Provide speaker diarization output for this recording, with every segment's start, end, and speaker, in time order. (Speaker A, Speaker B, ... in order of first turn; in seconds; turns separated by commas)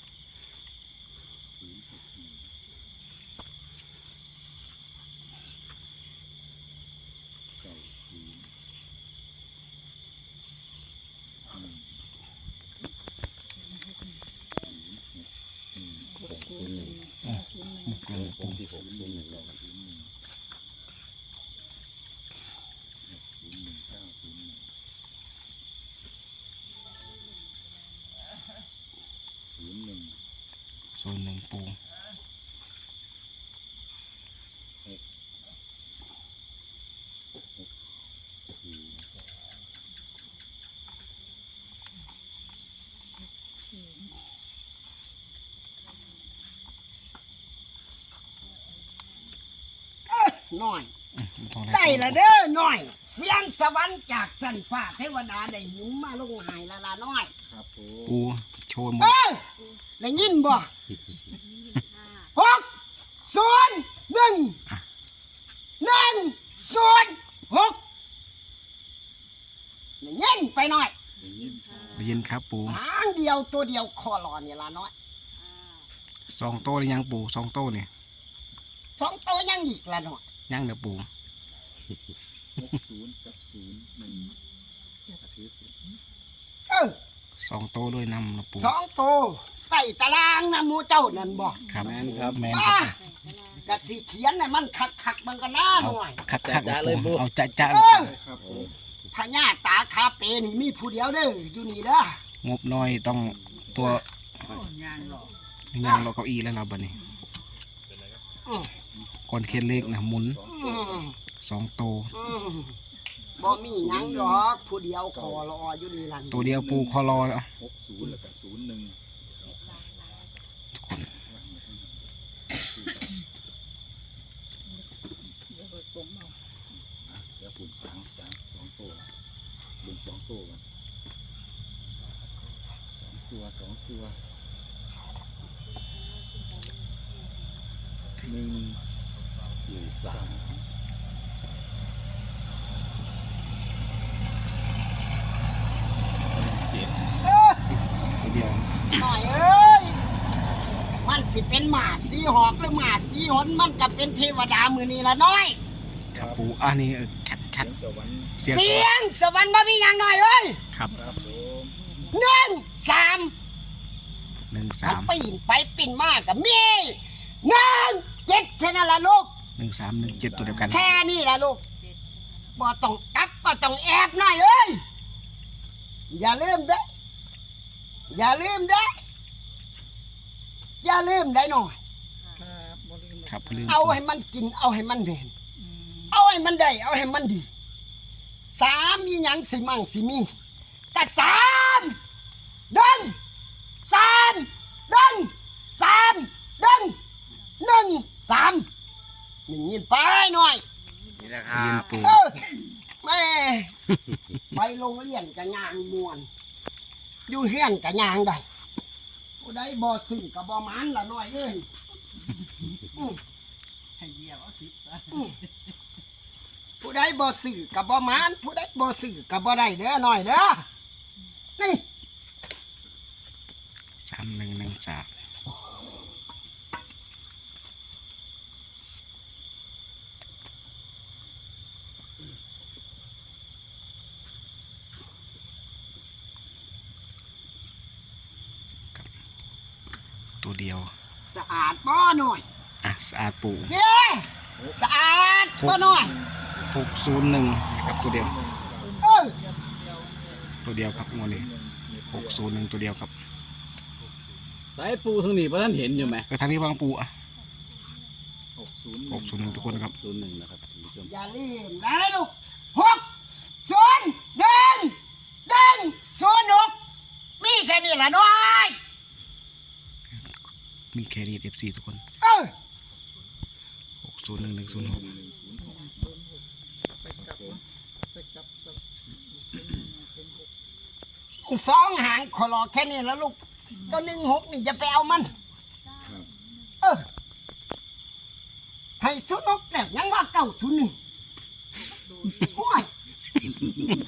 Speaker A: 1.8-2.2, Speaker A: 7.6-8.4, Speaker A: 14.8-15.2, Speaker A: 15.8-16.3, Speaker B: 16.2-17.1, Speaker C: 17.2-18.6, Speaker B: 18.1-19.6, Speaker A: 18.7-20.1, Speaker A: 23.1-24.6, Speaker A: 29.4-30.2, Speaker C: 31.0-31.8, Speaker D: 50.1-50.9, Speaker C: 51.1-52.2, Speaker D: 51.7-57.3, Speaker A: 57.5-58.1, Speaker C: 58.1-59.1, Speaker D: 59.0-59.4, Speaker D: 60.0-60.7, Speaker D: 62.3-62.6, Speaker D: 63.2-64.6, Speaker D: 65.8-67.8, Speaker D: 70.0-70.9, Speaker A: 71.2-72.0, Speaker C: 71.9-72.8, Speaker D: 72.7-74.9, Speaker C: 76.3-77.9, Speaker D: 79.0-80.2, Speaker C: 80.5-81.1, Speaker A: 82.6-84.3, Speaker A: 85.2-85.7, Speaker D: 86.7-87.0, Speaker C: 87.4-88.7, Speaker D: 88.6-91.6, Speaker C: 91.7-93.0, Speaker B: 91.7-92.4, Speaker D: 92.4-92.9, Speaker D: 93.6-96.2, Speaker C: 95.8-98.1, Speaker B: 96.3-97.2, Speaker D: 97.6-98.2, Speaker A: 98.1-98.7, Speaker B: 98.4-98.7, Speaker D: 99.1-102.2, Speaker C: 102.4-104.0, Speaker E: 105.0-105.3, Speaker C: 105.7-107.0, Speaker D: 108.5-108.7, Speaker C: 109.3-110.4, Speaker D: 110.5-111.2, Speaker A: 110.5-110.9, Speaker C: 111.4-112.1, Speaker D: 112.1-112.7, Speaker D: 113.4-116.5, Speaker C: 116.3-117.5, Speaker A: 116.4-119.0, Speaker C: 120.8-121.1, Speaker A: 121.3-123.0, Speaker A: 127.1-129.1, Speaker A: 129.8-130.6, Speaker A: 133.1-134.2, Speaker A: 138.2-138.8, Speaker B: 139.7-140.3, Speaker A: 140.1-140.6, Speaker B: 146.3-147.0, Speaker D: 147.2-147.6, Speaker C: 148.2-149.0, Speaker D: 148.9-150.0, Speaker D: 151.0-155.6, Speaker C: 156.1-157.7, Speaker A: 156.1-156.4, Speaker A: 157.6-158.3, Speaker C: 158.4-158.9, Speaker D: 158.4-160.6, Speaker C: 160.7-161.0, Speaker A: 160.9-161.8, Speaker D: 162.1-163.3, Speaker C: 164.5-165.1, Speaker D: 164.8-169.3, Speaker C: 169.6-170.8, Speaker A: 170.0-170.9, Speaker D: 170.7-171.6, Speaker D: 172.6-174.8, Speaker D: 176.1-176.8, Speaker D: 178.1-178.9, Speaker D: 180.8-181.8, Speaker E: 182.4-183.2, Speaker C: 183.2-184.0, Speaker D: 183.7-185.3, Speaker D: 186.1-187.5, Speaker D: 188.5-190.3, Speaker D: 190.9-192.0, Speaker D: 192.7-193.2, Speaker D: 193.8-196.9, Speaker D: 197.6-198.7, Speaker D: 199.5-200.6, Speaker B: 201.2-201.9, Speaker C: 201.5-202.2, Speaker D: 202.0-203.7, Speaker D: 204.5-206.3, Speaker D: 207.3-208.4, Speaker D: 209.4-211.7, Speaker D: 212.9-213.2, Speaker E: 214.0-214.8, Speaker D: 216.8-220.6, Speaker D: 221.6-221.8, Speaker C: 224.1-225.1, Speaker C: 240.4-240.9, Speaker D: 241.2-242.4, Speaker C: 242.8-243.7, Speaker D: 243.7-246.2, Speaker C: 245.6-245.9, Speaker A: 246.2-246.5, Speaker C: 246.7-248.3, Speaker A: 247.9-250.2, Speaker D: 249.0-249.4, Speaker C: 250.6-251.5, Speaker A: 251.2-252.4, Speaker C: 252.1-253.1, Speaker B: 254.8-256.3, Speaker C: 256.3-257.1, Speaker A: 258.6-259.8, Speaker C: 259.1-259.9, Speaker B: 259.7-261.1, Speaker D: 261.1-263.0, Speaker D: 263.6-266.8, Speaker D: 267.4-268.8, Speaker C: 270.9-272.0, Speaker D: 272.2-272.5, Speaker C: 274.0-275.1, Speaker A: 274.6-275.9, Speaker A: 277.1-277.6, Speaker E: 278.1-278.7, Speaker E: 279.6-280.4, Speaker D: 281.4-285.3, Speaker D: 289.0-290.9, Speaker D: 292.3-292.9